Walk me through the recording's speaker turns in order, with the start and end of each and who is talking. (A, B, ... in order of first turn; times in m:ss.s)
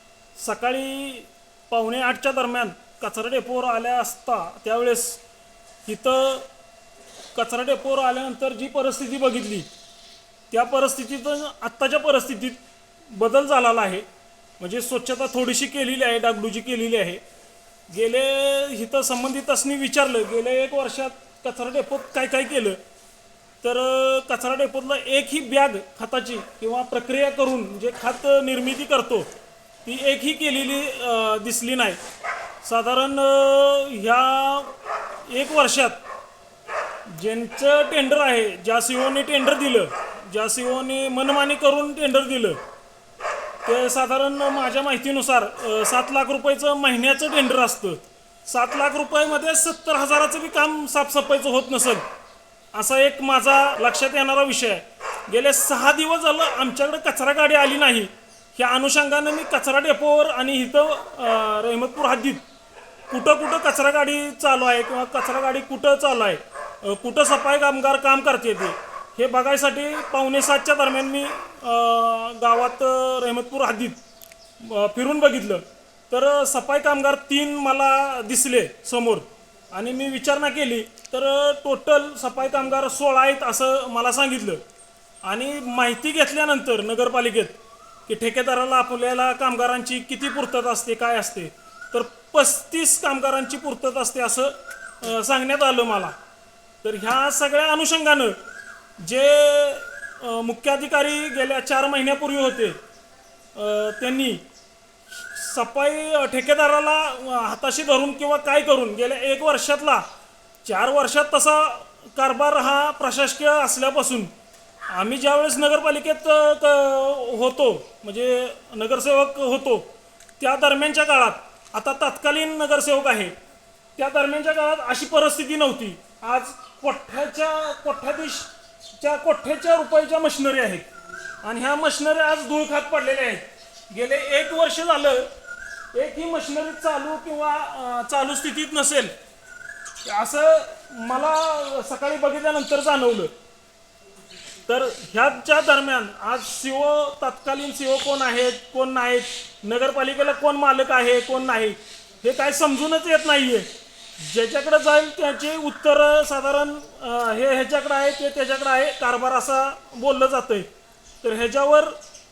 0:00.4-0:05.2 A
0:05.8-0:06.5 A
0:07.3-0:09.7 A
0:10.5-0:14.0 A
0:14.6-0:17.2 A
0:17.9-0:22.8 A
0:23.6-0:29.3 A
0:29.8-0:32.0 A
0:32.6-0:34.7 A
0:35.3-0:36.0 A
0:37.1-0:42.6 A
0:43.6-0:52.0 A
0:52.7-1:02.4 A
1:03.1-1:14.0 A
1:14.6-1:24.6 A
1:25.2-1:27.6 A
1:28.1-1:36.1 A
1:36.8-1:38.4 A
1:39.0-1:42.8 A
1:43.6-1:44.4 A
1:45.3-1:50.1 A
1:50.6-1:54.3 A
1:54.9-2:03.3 A
2:04.0-2:10.9 A
2:11.4-2:15.3 A
2:15.9-2:19.1 A
2:20.0-2:23.3 A
2:24.7-2:33.7 A
2:34.2-2:40.7 A
2:41.2-2:42.0 A